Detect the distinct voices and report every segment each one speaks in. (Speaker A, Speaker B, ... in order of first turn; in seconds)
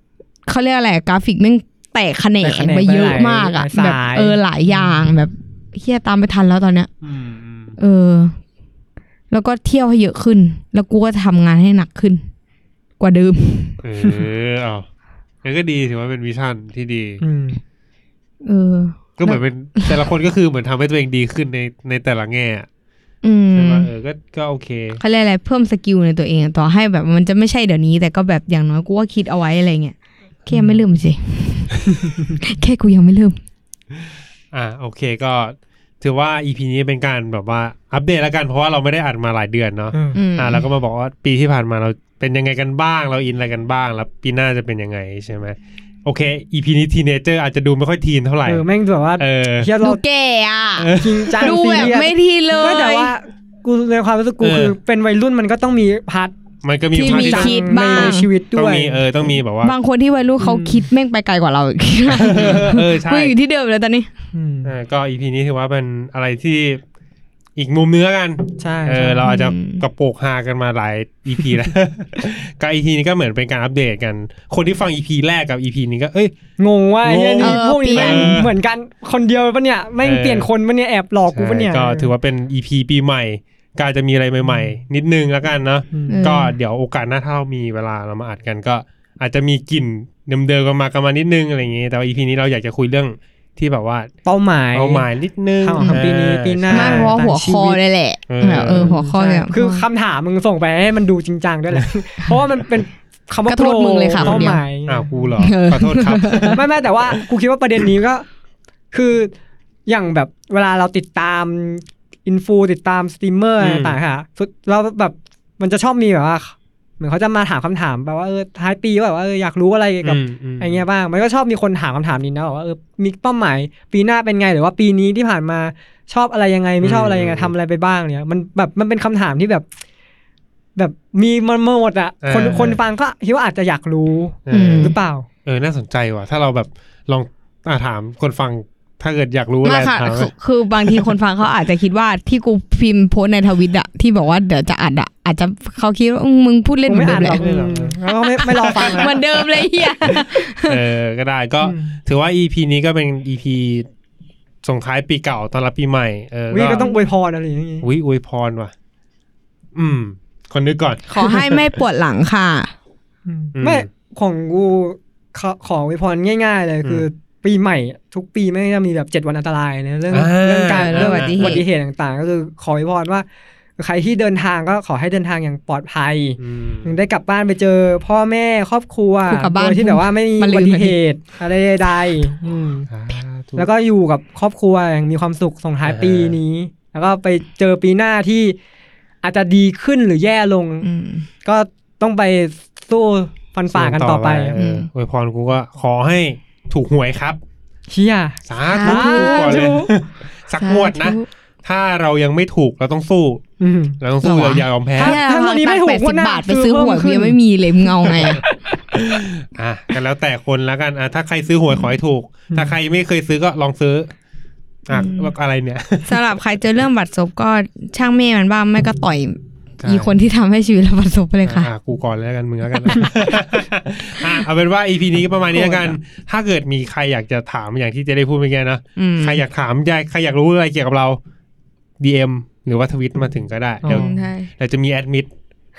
Speaker A: 0.5-6.9, 7.8-8.3, 9.3-12.2, 13.0-13.8, 18.4-20.0, 23.2-23.9, 25.0-29.9, 30.5-33.4, 40.1-40.6, 49.8-53.1, 56.9-58.3, 59.6-64.1, 69.2-69.8, 77.4-78.5, 86.1-86.5, 96.7-99.8, 103.5-104.6, 105.4-106.6, 134.5-134.9, 139.6-147.4, 148.6-150.8, 161.1-162.7, 170.7-171.6, 179.3-181.0, 190.8-191.2, 194.5-194.9, 198.7-199.7, 200.6-201.3, 204.2-208.4, 214.9-215.3, 216.1-221.7, 229.0-229.4, 233.9-234.5
Speaker B: 2.4-4.4, 17.2-17.6, 30.5-30.8, 39.9-40.2, 48.5-50.0, 50.9-56.3, 56.9-59.0, 60.4-60.8, 64.3-64.7, 68.6-69.3, 76.6-82.1, 85.9-86.3, 94.2-95.0, 95.6-97.8, 98.4-105.3, 106.5-108.3, 108.9-109.3, 109.9-129.6, 130.8-135.3, 146.9-149.2, 151.6-152.0, 156.5-157.9, 163.2-173.2, 173.8-182.9, 183.6-188.6, 189.2-190.8, 191.4-194.6, 197.9-199.9, 203.6-204.0, 205.0-209.0, 212.5-212.8, 225.6-225.9, 233.8-234.1
Speaker C: 7.0-7.8, 13.8-14.9, 15.4-17.2, 19.2-22.7, 23.5-25.0, 34.5-48.6, 49.2-49.7, 50.8-51.9, 54.4-54.7, 56.6-59.7, 62.1-63.3, 64.6-66.8, 67.5-76.3, 77.0-78.5, 80.0-80.5, 81.3-94.1, 94.7-97.1, 98.3-98.9, 104.2-107.1, 113.6-114.0, 120.0-120.8, 126.8-127.5, 132.2-132.8, 134.5-134.9, 135.4-140.3, 147.1-149.4, 150.1-153.8, 154.6-156.9, 157.8-158.7, 159.7-161.6, 163.6-163.9, 170.1-171.7, 176.4-176.9, 182.9-183.7, 185.8-186.4, 193.7-197.4, 198.5-203.4, 204.0-205.2, 208.9-214.1, 214.9-216.2, 219.8-220.1, 221.4-231.2, 232.0-235.3